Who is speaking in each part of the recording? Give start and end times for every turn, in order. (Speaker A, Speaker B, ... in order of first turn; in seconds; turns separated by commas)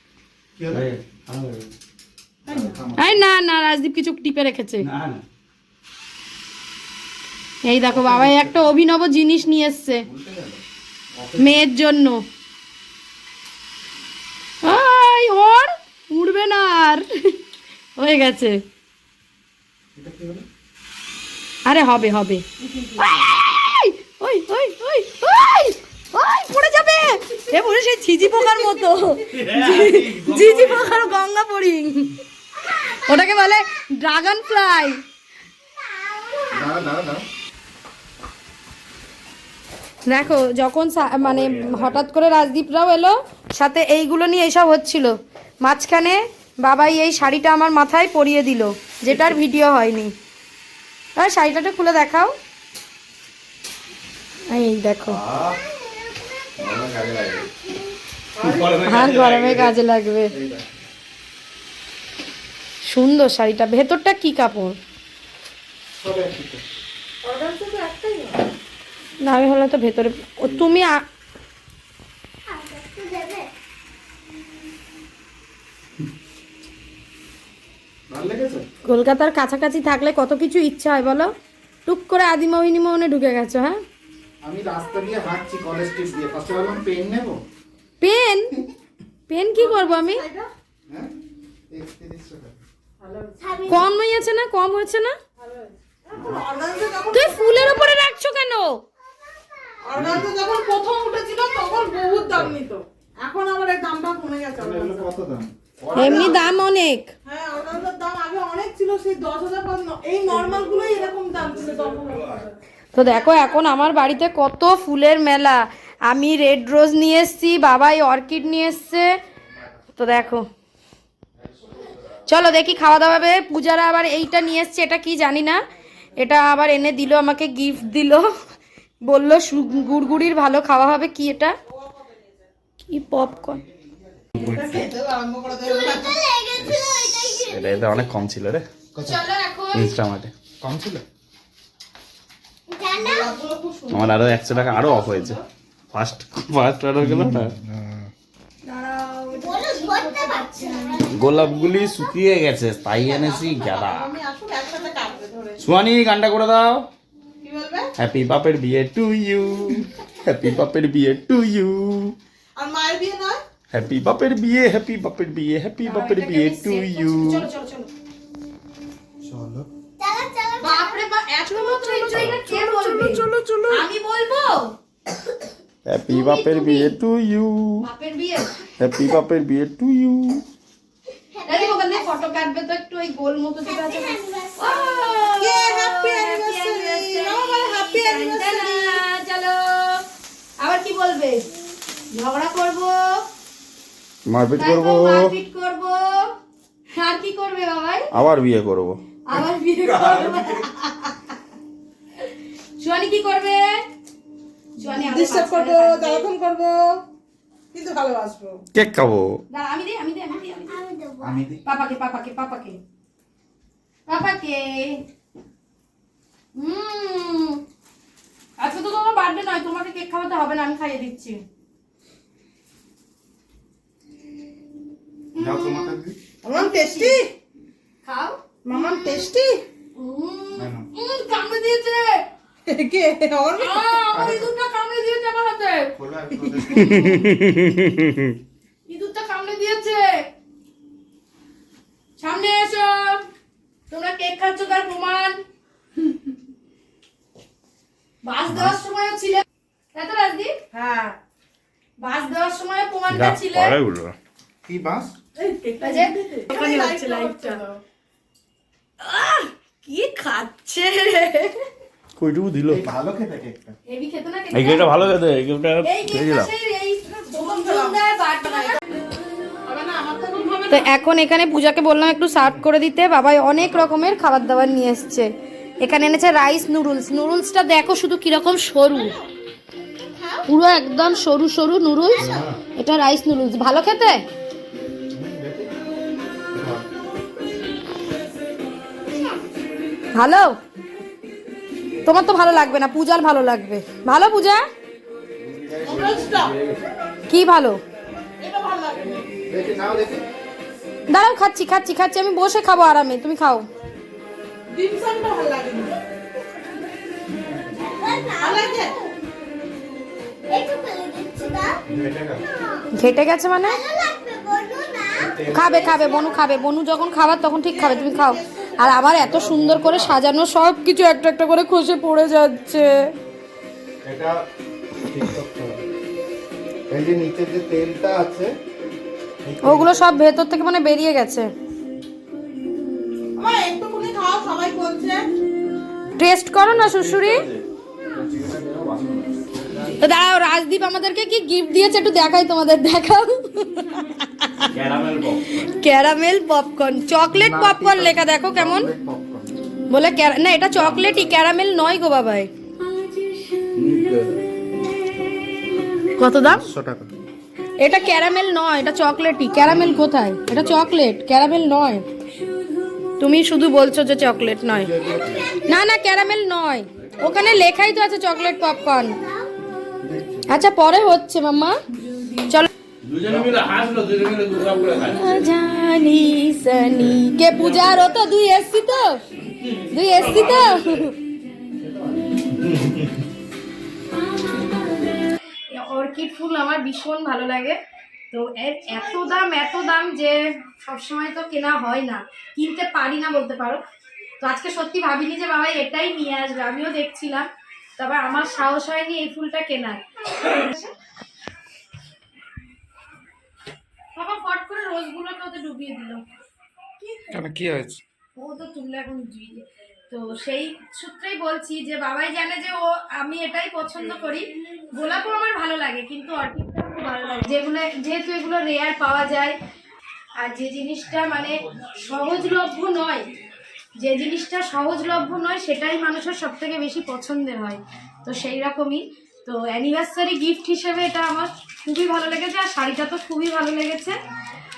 Speaker A: 0.6-0.9, Speaker B: 0.7-1.7, Speaker A: 2.5-3.2, Speaker C: 2.5-2.8, Speaker D: 3.0-4.9, Speaker B: 4.8-5.2, Speaker D: 7.6-10.1, Speaker A: 7.9-8.6, Speaker A: 10.1-10.6, Speaker A: 11.1-11.6, Speaker D: 11.4-12.2, Speaker D: 14.6-17.4, Speaker D: 18.0-18.6, Speaker A: 20.0-20.4, Speaker D: 21.7-22.4, Speaker D: 23.0-32.2, Speaker B: 29.3-31.1, Speaker D: 32.7-35.0, Speaker E: 35.8-36.9, Speaker A: 36.5-37.2, Speaker D: 40.1-50.1, Speaker B: 41.2-42.0, Speaker D: 51.2-52.4, Speaker D: 54.5-55.2, Speaker B: 55.1-55.6, Speaker B: 56.6-57.5, Speaker C: 58.4-58.8, Speaker B: 58.4-59.7, Speaker D: 58.8-60.4, Speaker A: 60.3-60.7, Speaker D: 62.9-64.8, Speaker A: 65.9-66.6, Speaker C: 67.2-68.5, Speaker D: 69.2-71.0, Speaker E: 72.5-73.5, Speaker A: 78.1-78.7, Speaker D: 78.9-81.3, Speaker D: 81.9-83.8, Speaker A: 84.4-87.4, Speaker D: 88.0-88.6, Speaker D: 89.3-90.2, Speaker C: 89.5-90.5, Speaker A: 91.7-92.6, Speaker C: 93.0-93.7, Speaker E: 93.4-93.9, Speaker D: 93.7-95.2, Speaker C: 95.4-97.9, Speaker D: 97.1-98.8, Speaker E: 99.2-99.7, Speaker C: 99.8-105.1, Speaker A: 100.0-100.3, Speaker A: 104.6-106.5, Speaker C: 105.9-106.4, Speaker D: 105.9-107.1, Speaker C: 107.3-112.5, Speaker D: 112.9-119.2, Speaker D: 120.0-120.5, Speaker D: 122.3-125.6, Speaker D: 126.2-128.3, Speaker D: 129.1-131.6, Speaker C: 131.7-132.3, Speaker D: 132.9-133.6, Speaker B: 134.4-134.6, Speaker C: 134.4-136.3, Speaker E: 135.6-138.1, Speaker B: 136.7-138.7, Speaker A: 138.9-139.2, Speaker D: 139.0-139.9, Speaker B: 139.7-140.3, Speaker A: 140.6-141.1, Speaker E: 142.7-143.4, Speaker C: 142.9-145.4, Speaker B: 143.9-145.4, Speaker B: 145.9-147.6, Speaker A: 147.0-148.1, Speaker D: 148.7-151.0, Speaker E: 149.4-152.1, Speaker B: 151.1-154.1, Speaker C: 152.9-155.6, Speaker B: 155.6-156.9, Speaker C: 157.4-157.9, Speaker B: 158.0-162.2, Speaker C: 162.6-163.4, Speaker B: 163.7-167.5, Speaker D: 165.8-167.9, Speaker A: 169.2-169.7, Speaker E: 170.0-171.1, Speaker D: 170.6-174.8, Speaker C: 170.6-173.7, Speaker B: 172.3-173.1, Speaker B: 175.8-177.9, Speaker D: 176.1-177.0, Speaker D: 177.8-178.6, Speaker B: 178.8-180.4, Speaker E: 181.3-182.3, Speaker D: 181.5-190.0, Speaker E: 183.7-185.3, Speaker C: 185.4-189.0, Speaker D: 190.6-191.4, Speaker D: 192.1-193.2, Speaker B: 194.2-195.4, Speaker D: 194.6-196.3, Speaker D: 196.9-198.1, Speaker B: 198.1-199.0, Speaker D: 199.3-200.8, Speaker D: 202.8-203.8, Speaker D: 204.8-206.3, Speaker C: 204.8-207.0, Speaker C: 207.7-208.6, Speaker B: 208.7-209.4, Speaker D: 209.5-210.8, Speaker E: 210.5-211.4, Speaker A: 211.2-211.6, Speaker D: 211.7-212.8, Speaker D: 214.1-215.0, Speaker D: 216.6-217.6, Speaker D: 218.6-221.4, Speaker D: 225.3-226.0, Speaker A: 225.4-226.2, Speaker C: 226.4-227.3, Speaker D: 226.5-227.2, Speaker D: 228.0-229.3, Speaker C: 228.7-229.6, Speaker D: 229.9-232.3, Speaker A: 230.6-230.9, Speaker C: 232.7-234.0, Speaker D: 233.6-235.9, Speaker A: 234.1-234.5, Speaker A: 236.0-237.3, Speaker B: 236.8-238.4, Speaker D: 238.9-240.3, Speaker D: 242.2-243.2, Speaker D: 243.9-245.4, Speaker D: 248.2-250.6, Speaker C: 250.7-251.2, Speaker D: 252.0-253.8, Speaker B: 253.1-254.2, Speaker A: 254.7-255.1, Speaker C: 255.4-257.8, Speaker D: 255.8-257.6, Speaker D: 259.0-261.6, Speaker B: 262.2-262.9, Speaker A: 262.7-263.8, Speaker D: 263.9-264.9, Speaker B: 264.5-266.5, Speaker D: 265.8-268.8, Speaker C: 267.3-268.0, Speaker C: 269.7-270.9, Speaker D: 270.7-275.3, Speaker D: 275.8-279.2, Speaker C: 278.9-279.3, Speaker C: 280.1-280.5, Speaker D: 280.5-284.2, Speaker E: 282.2-282.4, Speaker A: 282.2-282.6, Speaker A: 285.1-285.8, Speaker A: 286.5-286.9, Speaker D: 290.1-290.6, Speaker D: 292.1-294.7, Speaker A: 295.5-296.5, Speaker C: 295.8-296.6, Speaker D: 297.3-297.8, Speaker C: 298.4-299.2, Speaker A: 299.5-300.2, Speaker D: 301.1-303.7, Speaker C: 304.7-306.0, Speaker E: 307.8-309.1, Speaker C: 308.4-309.0, Speaker E: 310.5-311.8, Speaker A: 311.9-312.4, Speaker D: 312.9-313.8, Speaker E: 313.6-316.5, Speaker D: 315.5-323.0, Speaker C: 317.7-319.1, Speaker A: 319.2-320.1, Speaker A: 324.0-324.4, Speaker A: 325.0-325.8, Speaker A: 326.9-328.6, Speaker A: 329.4-330.0, Speaker D: 329.6-331.5, Speaker C: 333.4-335.3, Speaker D: 336.2-337.5, Speaker B: 336.7-337.6, Speaker A: 338.1-340.0, Speaker D: 340.0-344.7, Speaker B: 344.7-345.7, Speaker D: 345.6-348.9, Speaker A: 347.3-349.5, Speaker D: 349.9-352.5, Speaker B: 353.8-354.4, Speaker D: 356.2-356.7, Speaker A: 356.5-357.1, Speaker D: 357.8-362.1, Speaker D: 363.2-364.9, Speaker A: 364.7-365.6, Speaker E: 365.2-365.6, Speaker D: 365.6-369.2, Speaker E: 368.4-369.7, Speaker A: 370.0-370.5, Speaker D: 370.5-371.8, Speaker B: 373.0-375.5, Speaker D: 375.1-379.2, Speaker B: 379.6-381.1, Speaker D: 379.9-381.1, Speaker A: 382.6-383.0, Speaker D: 385.7-387.8, Speaker D: 388.3-393.8, Speaker D: 394.4-400.9, Speaker D: 404.2-406.2, Speaker A: 407.3-408.0, Speaker D: 408.4-419.6, Speaker D: 420.4-423.3, Speaker D: 424.0-434.2